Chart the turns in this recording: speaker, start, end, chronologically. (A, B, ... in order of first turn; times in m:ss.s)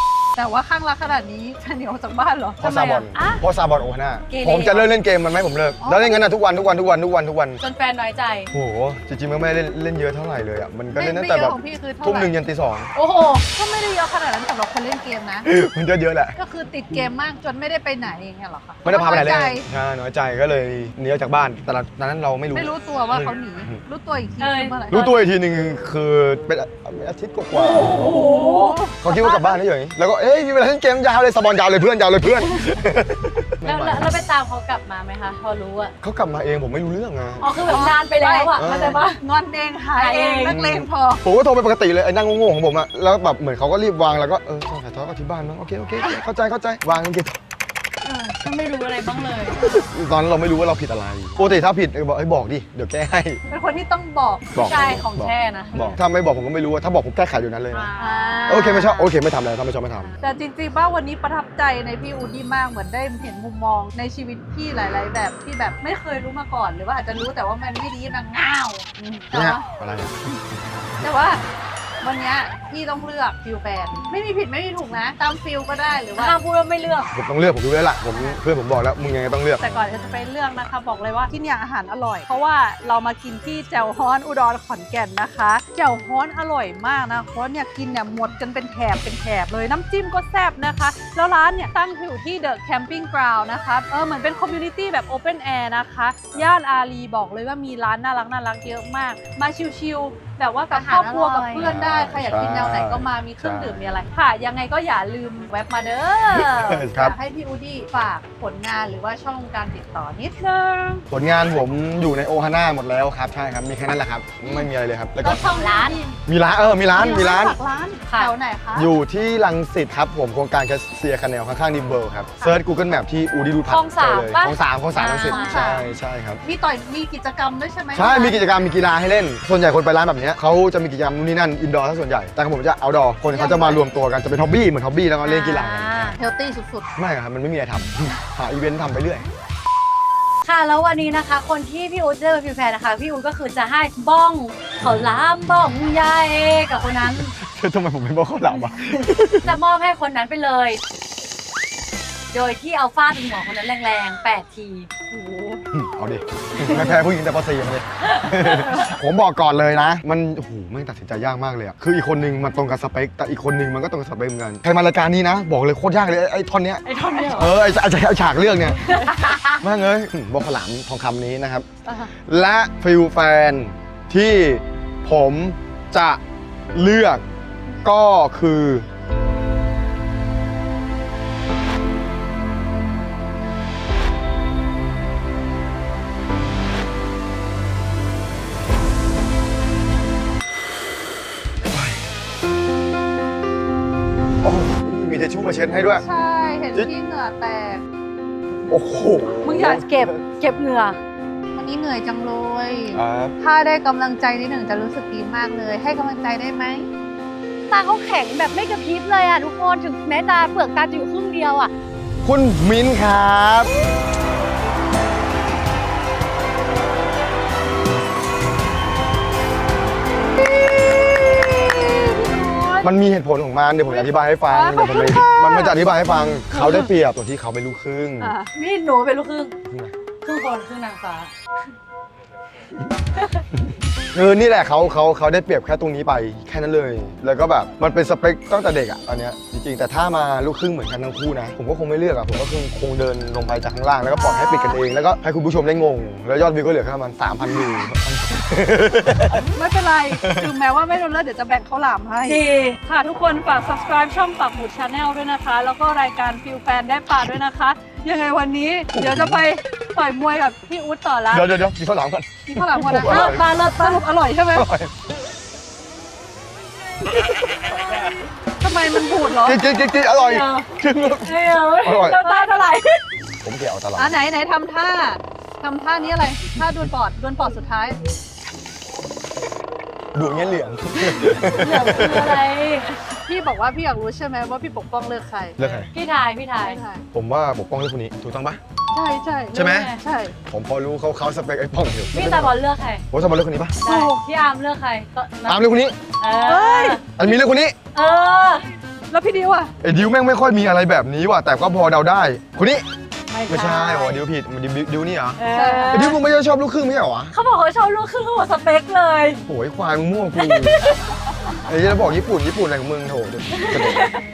0:00.4-0:02.6 A
0:02.6-0:07.6 B
0:02.6-0:03.4 C
0:04.3-0:04.9 C
0:05.8-0:06.3 A
0:07.6-0:08.5 C
0:08.5-0:12.9 B
0:10.9-0:12.3 A
0:12.9-0:13.4 C
0:13.5-0:15.4 A
0:15.4-0:16.3 B
0:16.3-0:19.6 A
0:18.8-0:23.8 B
0:22.5-0:25.2 A
0:24.4-0:24.8 C
0:24.9-0:28.0 B
0:27.5-0:28.8 C
0:27.9-0:29.6 A
0:29.0-0:34.2 B
0:33.6-0:35.9 C
0:36.0-0:38.0 B
0:37.4-0:39.2 C
0:37.6-0:41.2 A
0:38.5-0:39.0 B
0:40.0-0:40.6 C
0:40.4-0:47.4 B
0:48.0-0:49.6 C
0:49.6-0:53.4 B
0:53.5-0:54.6 A
0:54.5-0:57.9 B
0:54.6-0:56.0 C
0:57.7-0:58.9 C
0:58.0-0:59.1 A
0:58.5-1:00.1 B
1:00.2-1:09.6 A
1:09.3-1:11.1 B
1:11.0-1:11.4 A
1:12.0-1:16.3 A
1:16.2-1:17.1 C
1:17.1-1:19.9 B
1:19.6-1:51.0 A
1:40.7-1:41.7 C
1:41.6-1:43.8 B
1:46.3-1:47.2 B
1:51.1-1:55.7 B
1:55.2-1:56.1 C
1:55.5-1:56.1 A
1:56.2-1:57.6 B
1:56.9-1:58.9 A
1:58.1-1:58.3 C
1:58.7-2:06.4 B
2:03.7-2:05.6 C
2:05.2-2:05.9 A
2:06.4-2:08.4 A
2:07.9-2:16.1 B
2:13.3-2:13.8 A
2:15.2-2:16.2 C
2:16.2-2:16.9 A
2:17.0-2:19.3 B
2:20.4-2:27.3 C
2:27.4-2:29.6 B
2:29.4-2:30.8 C
2:32.3-2:34.9 C
2:35.1-2:35.6 A
2:35.7-2:48.8 B
2:36.6-2:36.9 C
2:38.0-2:38.7 C
2:38.5-2:38.9 A
2:46.8-2:47.5 C
2:48.8-2:49.6 C
2:49.5-2:51.7 B
2:51.8-2:52.1 A
2:52.2-2:56.2 B
2:56.7-2:57.2 B
2:57.8-2:58.9 B
3:11.7-3:12.0 B
3:14.4-3:16.0 B
3:16.0-3:17.8 A
3:18.7-3:20.2 B
3:19.4-3:20.1 A
3:20.0-3:21.0 C
3:21.5-3:26.9 A
3:22.9-3:23.4 B
3:27.7-3:31.7 C
3:32.2-3:33.7 B
3:41.5-3:43.0 A
3:42.8-3:48.3 B
3:43.9-3:46.8 A
3:48.2-3:48.5 A
3:48.5-3:49.6 C
3:49.7-3:49.9 B
3:50.2-3:51.3 C
3:53.2-3:53.4 C
3:53.5-4:09.5 B
4:04.2-4:04.8 A
4:07.5-4:07.8 A
4:09.4-4:21.5 A
4:10.1-4:10.5 B
4:12.2-4:12.8 C
4:18.9-4:19.4 B
4:21.3-4:23.5 B
4:22.5-4:24.7 A
4:22.9-4:24.0 C
4:24.5-4:25.0 B
4:28.6-4:29.6 A
4:29.4-4:32.2 B
4:30.1-4:30.7 C
4:31.2-4:32.9 C
4:32.1-4:32.8 A
4:33.4-4:34.2 B
4:34.0-4:38.0 A
4:40.1-4:42.4 B
4:41.3-4:43.0 C
4:43.3-4:45.6 A
4:45.6-4:45.9 B
4:45.9-4:46.8 C
4:46.6-4:47.0 A
4:47.1-4:48.6 B
4:48.9-4:50.3 A
4:49.5-4:49.9 B
4:49.6-4:50.0 C
4:50.5-4:52.5 B
4:52.1-4:53.0 C
4:53.1-4:53.8 B
4:53.8-4:57.0 C
4:53.8-4:54.2 A
4:55.4-4:56.0 B
4:56.3-4:57.0 A
4:57.2-4:57.8 B
4:57.9-4:58.7 C
4:59.1-4:59.7 A
4:59.8-5:02.8 B
5:03.3-5:04.2 C
5:03.5-5:07.3 B
5:05.4-5:06.2 C
5:05.5-5:06.1 A
5:07.3-5:09.4 C
5:09.4-5:10.8 B
5:10.4-5:11.0 C
5:11.6-5:14.1 B
5:13.5-5:14.1 C